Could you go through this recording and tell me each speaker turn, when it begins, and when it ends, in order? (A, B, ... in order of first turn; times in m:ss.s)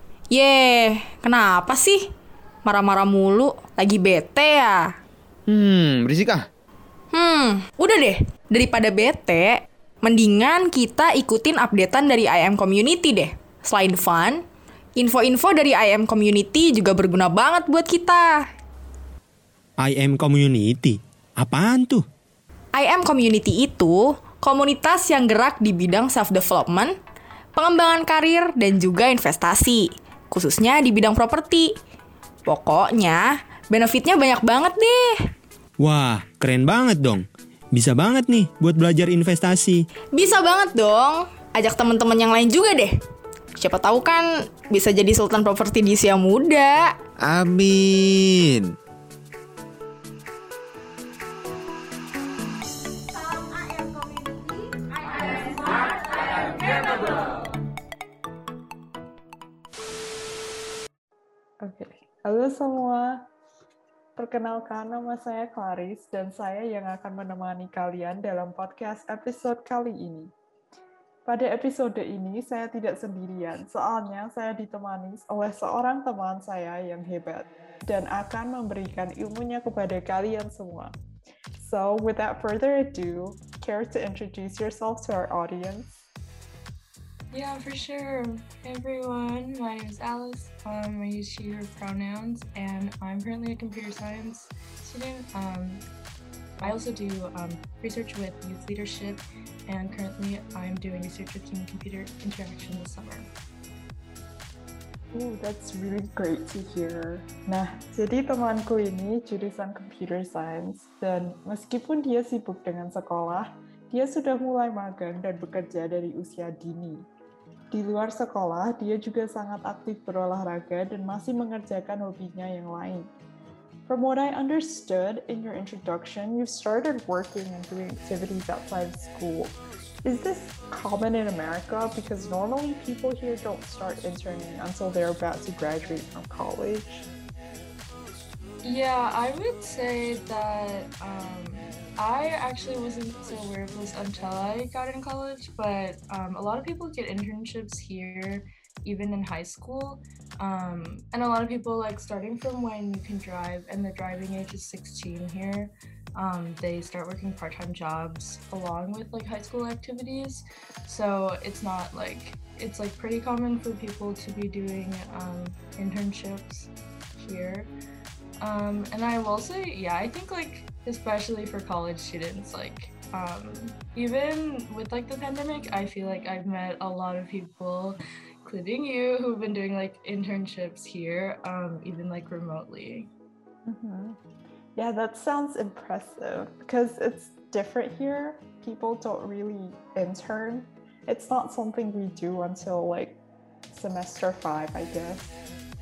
0:00.3-0:02.0 A
0:02.6-0:04.8 A
0:05.5-0:06.5 B
0:07.1-0:14.4 A
0:15.0-0:18.4 A
0:19.8-0:22.0 C
0:22.7-0:26.9 A
0:27.6-0:31.7 A
0:32.4-0:35.1 A
0:35.8-0:39.8 C
0:40.1-0:42.9 A
0:43.6-0:46.9 A
0:47.2-0:48.7 B
1:01.6-1:03.3 D
1:04.2-1:10.3 D
1:11.2-1:21.0 D
1:21.6-1:26.1 D
1:27.3-1:35.8 E
1:36.6-1:43.3 E
1:45.1-1:57.1 D
1:57.7-2:03.1 D
2:03.9-2:17.1 D
2:18.6-2:47.7 E
2:48.4-3:03.1 E
3:03.6-3:04.2 D
3:04.8-3:15.4 D